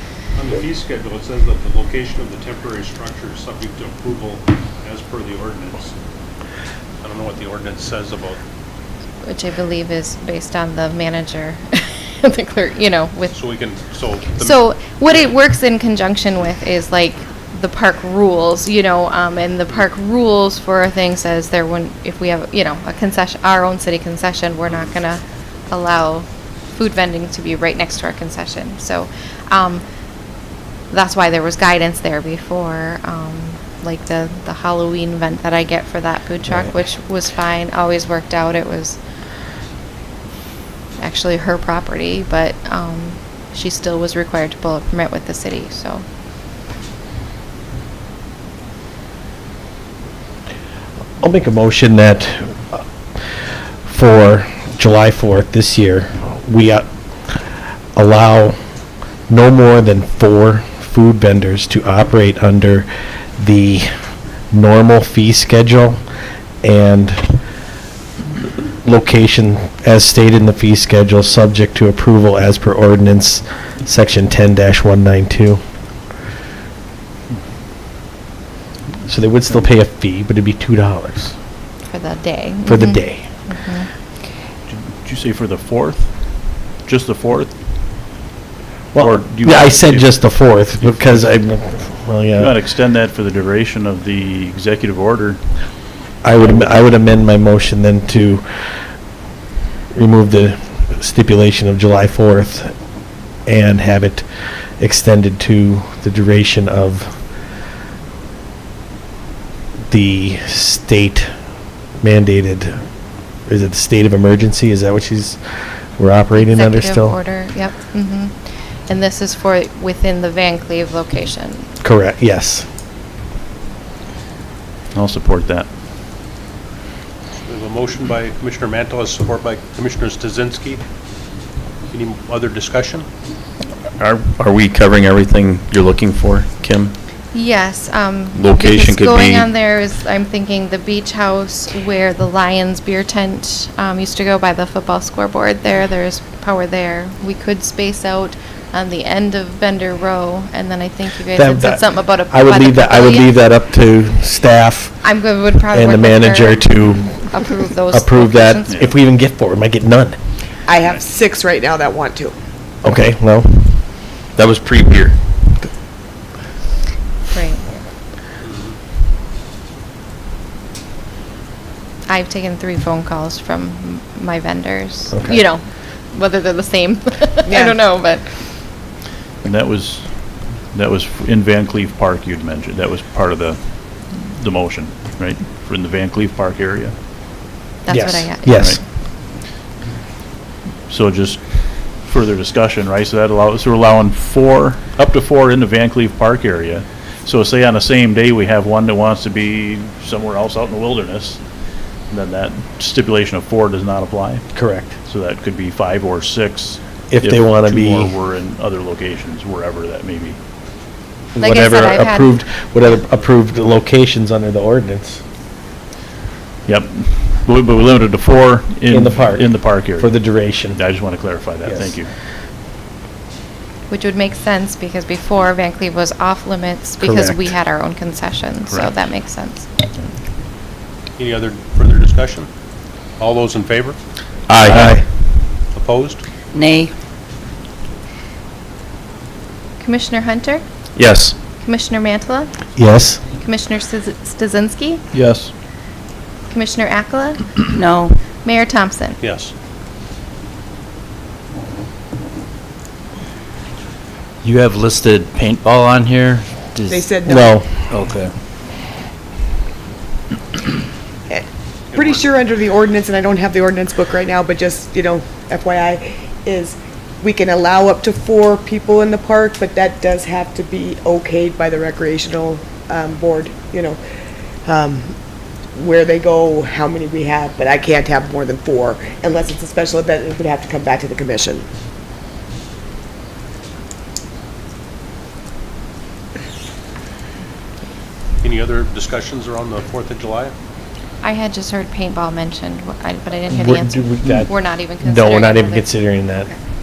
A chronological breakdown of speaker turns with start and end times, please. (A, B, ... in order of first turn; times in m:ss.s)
0:00.4-0:06.0 A
0:07.0-0:08.4 A
0:09.2-0:13.4 B
0:13.3-0:15.3 A
0:14.4-0:29.8 B
0:30.9-0:39.0 B
0:41.0-0:46.0 B
0:51.2-0:52.8 C
0:53.8-0:56.9 C
0:58.0-0:58.6 C
0:59.3-1:06.0 C
1:06.6-1:07.4 C
1:08.8-1:15.6 C
1:19.0-1:21.4 C
1:21.8-1:23.9 B
1:22.7-1:23.3 C
1:24.7-1:27.6 D
1:28.9-1:32.6 C
1:29.0-1:31.6 D
1:32.3-1:35.4 D
1:36.2-1:38.8 C
1:39.9-1:42.7 C
1:43.4-1:44.3 C
1:44.8-1:47.3 C
1:49.9-1:51.3 C
1:52.0-1:52.9 C
1:53.4-1:57.2 C
1:56.3-2:01.7 B
2:01.8-2:02.7 C
2:04.9-2:05.7 D
2:07.5-2:10.8 A
2:11.9-2:13.1 A
2:14.0-2:17.0 E
2:17.3-2:33.3 B
2:18.3-2:19.5 E
2:31.3-2:40.2 C
2:35.0-2:38.8 B
2:40.7-2:42.4 F
2:42.8-2:44.0 C
2:44.4-2:45.2 E
2:47.3-2:47.7 B
2:48.4-2:48.8 A
2:52.1-2:58.4 B
2:55.1-2:55.5 C
2:57.5-2:57.8 F
2:59.4-3:06.9 D
3:07.8-3:08.7 B
3:07.9-3:08.8 C
3:08.5-3:08.8 D
3:10.9-3:21.4 D
3:22.1-3:30.4 D
3:24.5-3:25.0 C
3:27.1-3:28.1 C
3:31.4-3:35.2 C
3:31.4-3:32.4 B
3:36.7-3:42.1 D
3:38.9-3:41.0 C
3:41.7-3:42.0 C
3:43.9-3:49.7 B
3:47.0-3:47.5 C
3:48.7-3:49.0 D
3:51.2-3:52.5 A
3:53.2-3:54.0 A
3:54.5-3:55.0 E
3:54.6-3:55.1 C
3:55.7-3:56.2 A
3:56.5-3:56.9 G
3:59.8-4:00.6 B
4:01.0-4:01.4 E
4:01.6-4:02.6 B
4:02.8-4:03.2 C
4:03.2-4:05.0 B
4:05.1-4:05.5 D
4:06.5-4:07.6 B
4:07.7-4:08.2 G
4:08.4-4:09.2 B
4:09.2-4:09.5 A
4:14.4-4:15.6 G
4:14.5-4:16.9 H
4:16.4-4:17.1 G
4:16.9-4:17.6 F
4:17.2-4:17.9 C
4:17.9-4:18.2 H
4:21.3-4:34.0 F
4:21.9-4:22.4 A
4:34.6-4:35.1 F
4:35.7-4:41.7 F
4:48.4-4:50.5 A
4:51.2-4:56.6 B
4:53.5-4:56.5 C